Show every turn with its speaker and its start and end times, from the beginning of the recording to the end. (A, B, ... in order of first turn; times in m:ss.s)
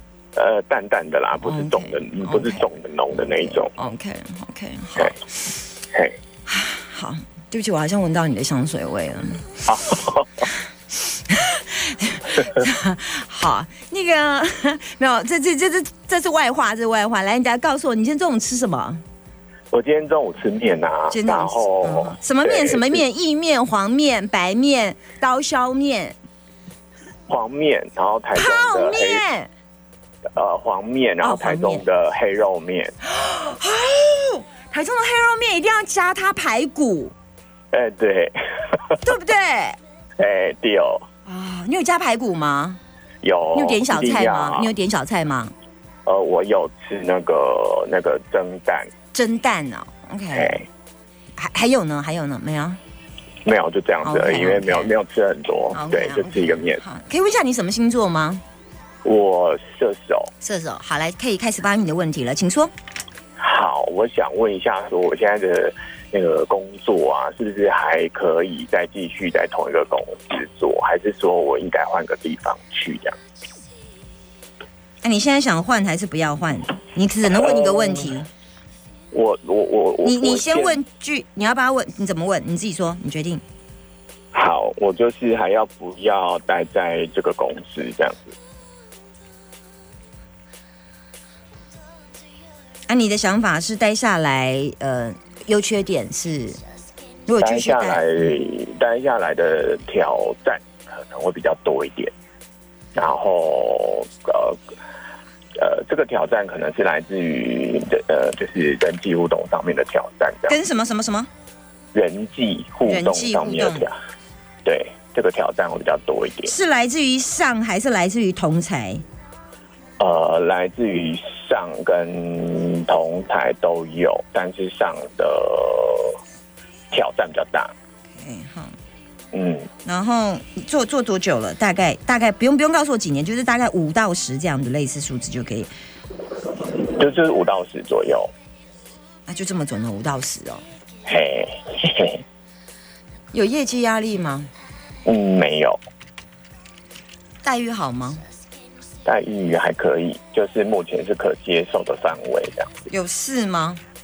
0:00.4-0:03.7 A
0:01.4-0:05.2 B
0:06.5-0:09.7 B
0:09.7-0:10.4 A
0:11.1-0:19.0 B
0:19.7-0:23.0 A
0:21.1-0:26.2 B
0:27.3-0:29.2 A
0:28.3-0:29.5 B
0:30.4-0:32.9 A
0:31.2-0:31.8 B
0:33.1-0:37.1 B
0:37.7-0:39.0 A
0:39.0-0:39.8 B
0:40.2-0:41.0 A
0:41.3-0:42.8 B
0:43.2-0:44.7 A
0:43.6-0:45.5 B
0:46.1-0:48.9 A
0:49.1-0:50.6 B
0:50.3-0:50.7 A
0:51.4-0:52.8 B
0:53.4-0:56.8 A
0:54.0-0:54.9 B
0:55.7-0:58.4 B
0:59.0-1:00.3 A
1:00.4-1:02.7 B
1:03.4-1:13.2 A
1:15.0-1:18.3 B
1:17.4-1:18.1 A
1:19.1-1:20.8 A
1:20.0-1:23.4 B
1:24.3-1:28.4 A
1:32.9-1:36.6 B
1:37.3-1:38.0 B
1:37.4-1:42.1 A
1:43.0-1:44.6 A
1:45.6-1:50.6 A
1:50.5-1:51.3 B
1:51.9-1:54.0 A
1:52.9-1:53.9 B
1:54.6-1:56.5 A
1:56.4-1:59.0 B
2:00.0-2:06.2 A
2:06.9-2:07.7 A
2:08.2-2:08.8 B
2:09.3-2:09.7 A
2:09.8-2:15.7 B
2:16.9-2:18.3 A
2:19.3-2:20.6 B
2:21.1-2:22.2 A
2:23.3-2:24.5 B
2:25.1-2:25.8 A
2:27.4-2:28.2 B
2:29.0-2:32.7 A
2:32.9-2:33.8 B